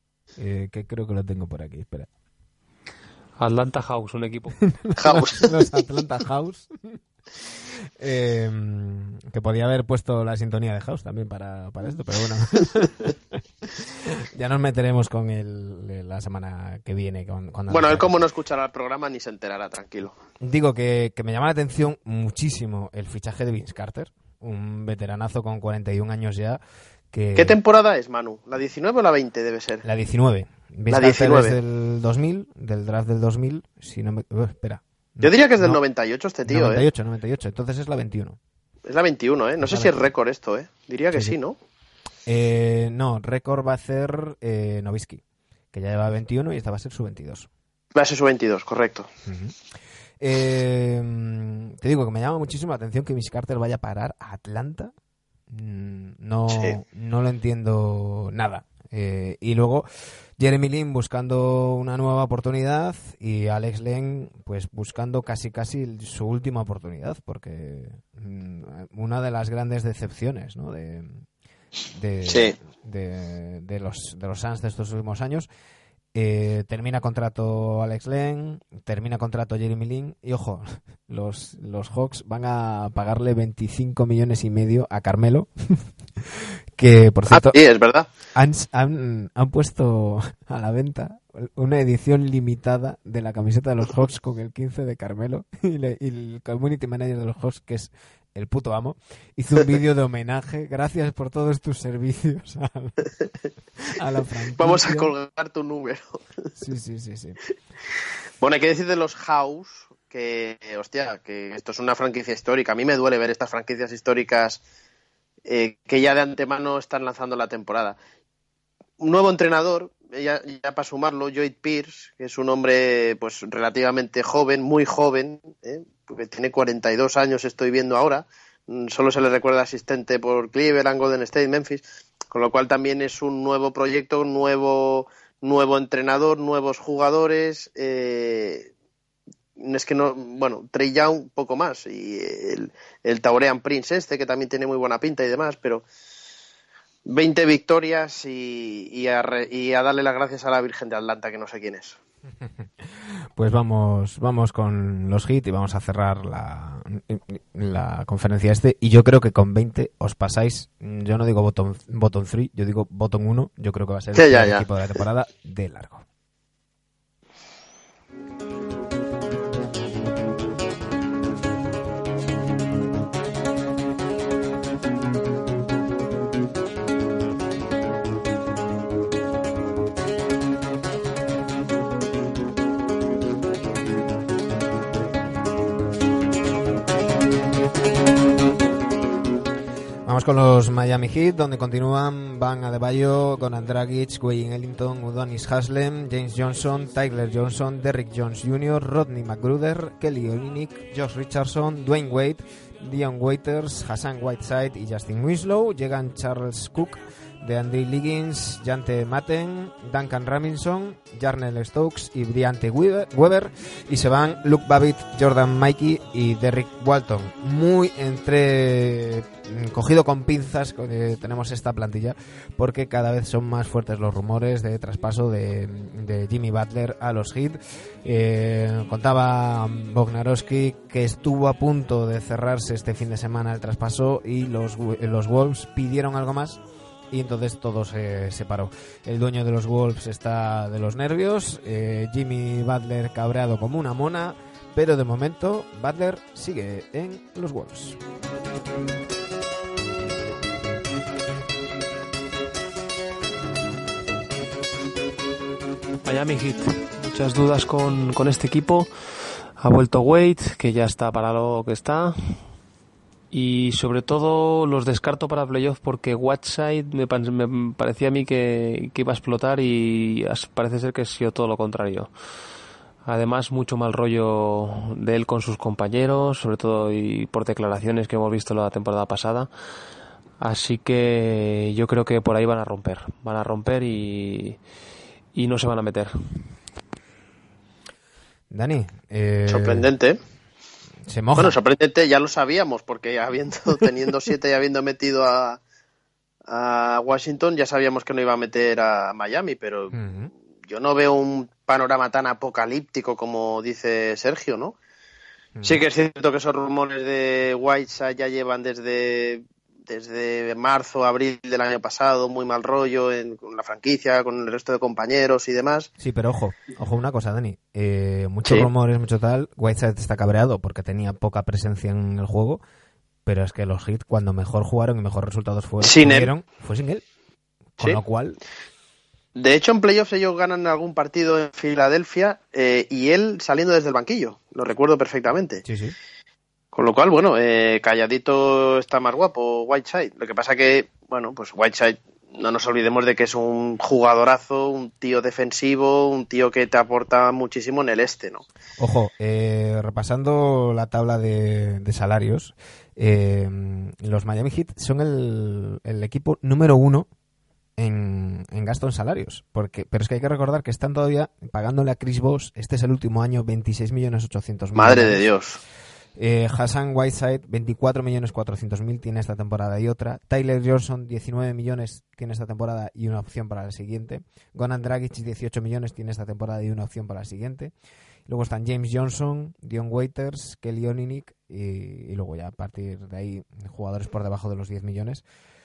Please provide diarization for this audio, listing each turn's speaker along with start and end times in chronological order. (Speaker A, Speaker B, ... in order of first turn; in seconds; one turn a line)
Speaker A: 0.3-2.1
Speaker B: 3.4-4.6
Speaker A: 4.8-7.0
Speaker C: 5.0-5.5
Speaker A: 8.0-13.1
Speaker A: 13.8-18.1
Speaker C: 17.7-20.1
Speaker A: 20.4-26.6
Speaker A: 27.1-27.6
Speaker C: 27.3-29.8
Speaker A: 29.8-35.8
Speaker C: 30.9-31.6
Speaker C: 35.2-36.8
Speaker A: 36.5-38.4
Speaker C: 38.9-41.6
Speaker A: 39.6-40.1
Speaker A: 42.2-45.2
Speaker A: 45.7-47.5
Speaker C: 47.9-49.1
Speaker A: 49.2-49.5
Speaker A: 50.2-54.9
Speaker A: 55.5-59.9
Speaker A: 60.4-71.2
Speaker A: 71.9-75.5
Speaker C: 72.3-72.5
Speaker A: 76.1-87.6
Speaker C: 87.3-88.1
Speaker A: 88.3-103.1
Speaker A: 103.8-105.1
Speaker C: 104.6-106.2
Speaker A: 106.6-107.4
Speaker C: 108.4-114.6
Speaker C: 115.4-118.0
Speaker C: 119.0-138.7
Speaker C: 139.6-145.8
Speaker C: 147.1-152.0
Speaker A: 153.3-166.0
Speaker C: 164.2-164.6
Speaker A: 190.0-248.0
Speaker B: 256.0-258.9
Speaker B: 259.6-262.4
Speaker B: 263.3-272.1
Speaker B: 273.0-279.5
Speaker B: 280.4-284.6
Speaker B: 285.3-286.4
Speaker A: 288.5-289.9
Speaker C: 289.5-290.2
Speaker A: 291.1-291.6
Speaker C: 291.4-295.6
Speaker C: 296.5-299.9
Speaker A: 299.9-300.3
Speaker C: 300.7-304.8
Speaker A: 305.6-305.8
Speaker C: 305.6-315.9
Speaker A: 316.0-322.6
Speaker A: 323.2-327.0
Speaker C: 325.8-326.3
Speaker A: 327.8-328.4
Speaker C: 329.3-335.6
Speaker A: 335.6-335.9
Speaker C: 336.7-348.4
Speaker A: 348.8-357.1
Speaker A: 357.8-365.2
Speaker C: 364.7-365.6
Speaker A: 366.1-377.7
Speaker A: 378.3-385.2